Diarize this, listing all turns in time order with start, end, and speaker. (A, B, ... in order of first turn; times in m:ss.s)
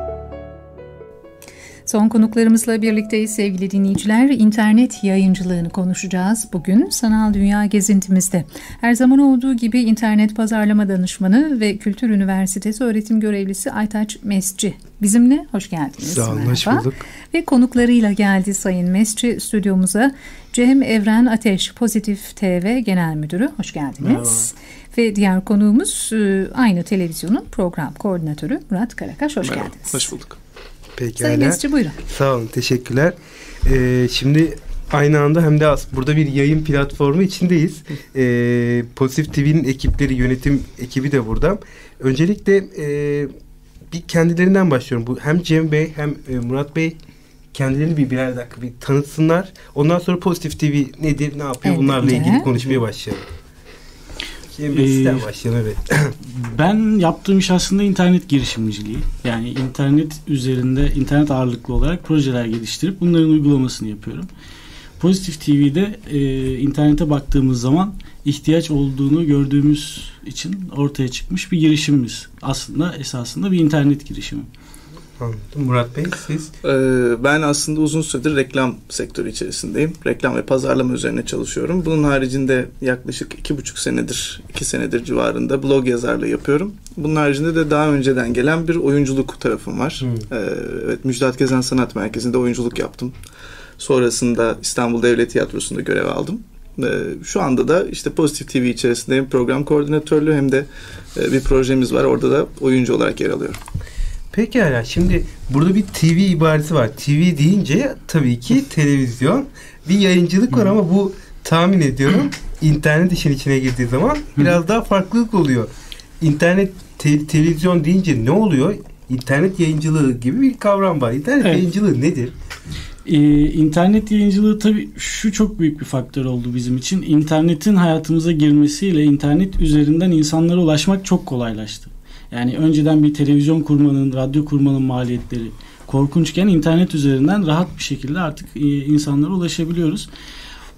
0:01.9-0:30.1 A
0:16.0-0:17.0 B
0:24.0-0:24.5 C
0:29.4-0:30.4 D
0:31.0-0:43.3 B
0:31.2-0:32.0 A
0:43.9-0:47.0 B
0:47.5-0:53.2 B
0:51.6-0:52.5 A
0:54.5-0:56.1 B
0:54.7-0:55.3 C
0:56.3-1:04.3 C
1:05.0-1:14.5 C
1:15.2-1:16.5 B
1:16.6-1:33.2 D
1:30.0-1:30.3 B
1:33.8-1:43.6 D
1:44.3-2:02.3 B
2:01.4-2:01.7 C
2:03.1-2:20.1 C